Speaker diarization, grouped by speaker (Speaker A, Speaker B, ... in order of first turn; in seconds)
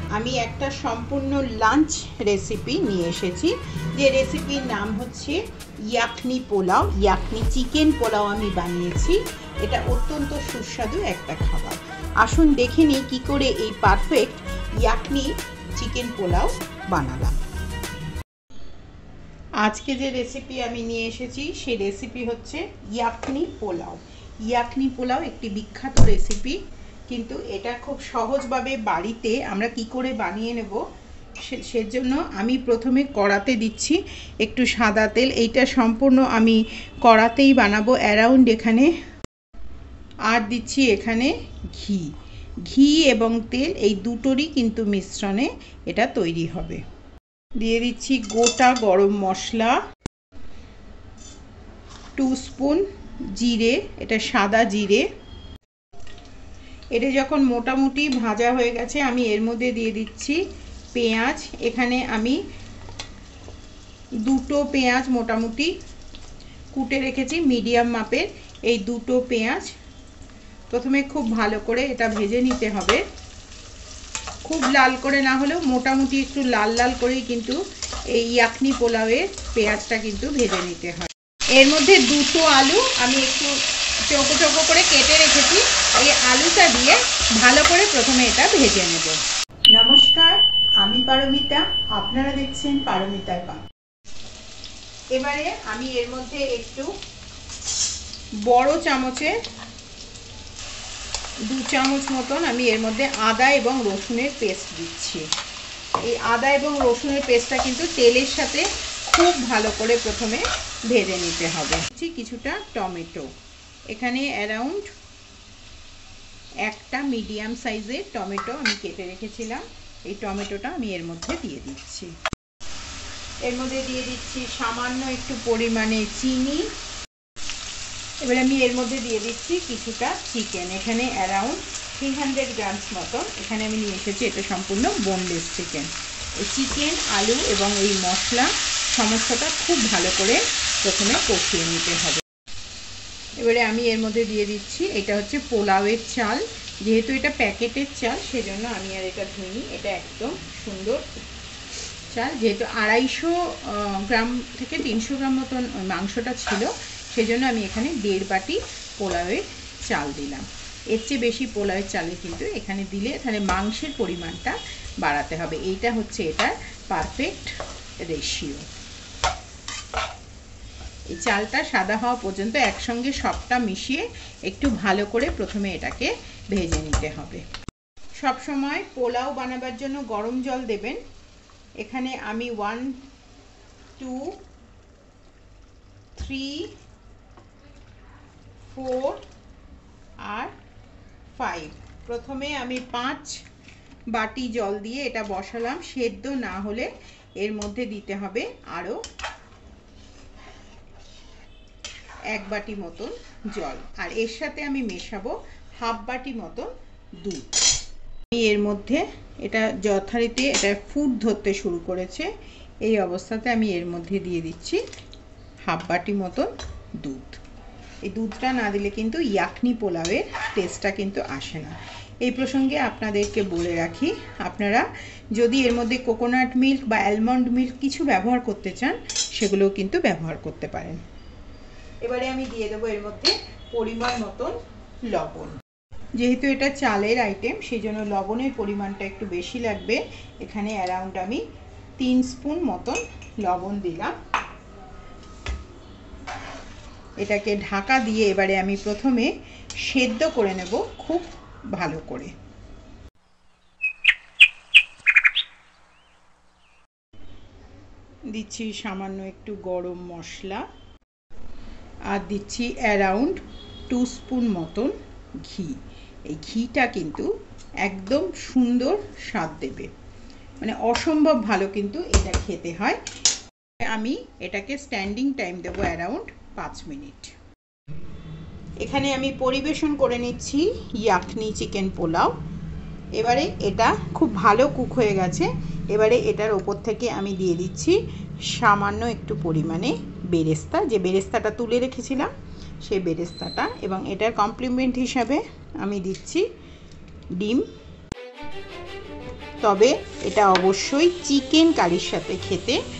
Speaker A: 0.1-5.4, 5.9-17.4, 19.6-26.6, 27.1-30.8, 31.4-38.9, 40.3-42.1, 42.6-46.8, 47.6-49.8, 52.1-52.8, 53.3-55.0, 56.9-60.4, 60.9-62.4, 64.2-65.7, 66.7-69.7, 70.7-73.0, 74.4-77.6, 78.1-83.5, 84.1-89.2, 89.7-93.6, 95.1-96.9, 98.4-99.3, 101.5-105.2, 106.0-113.3, 113.9-114.8, 116.7-122.1, 123.5-126.7, 128.2-142.2, 143.4-151.2, 152.1-168.7, 171.1-177.4, 178.2-181.0, 181.8-182.9, 184.0-184.3, 186.1-186.7, 188.7-189.2, 190.3-190.5, 191.3-193.4, 194.1-199.0, 202.3-206.7, 207.2-207.5, 208.3-212.3, 212.8-214.8, 215.7-217.4, 218.0-231.0, 232.0-234.6, 235.1-235.6, 236.2-241.4, 242.0-244.1, 247.2-249.3, 249.8-252.3, 258.3-260.6, 262.1-267.3, 267.8-269.9, 270.6-273.0, 273.9-277.3, 278.8-282.3, 283.1-292.3, 292.8-296.4, 297.4-297.6, 299.6-302.8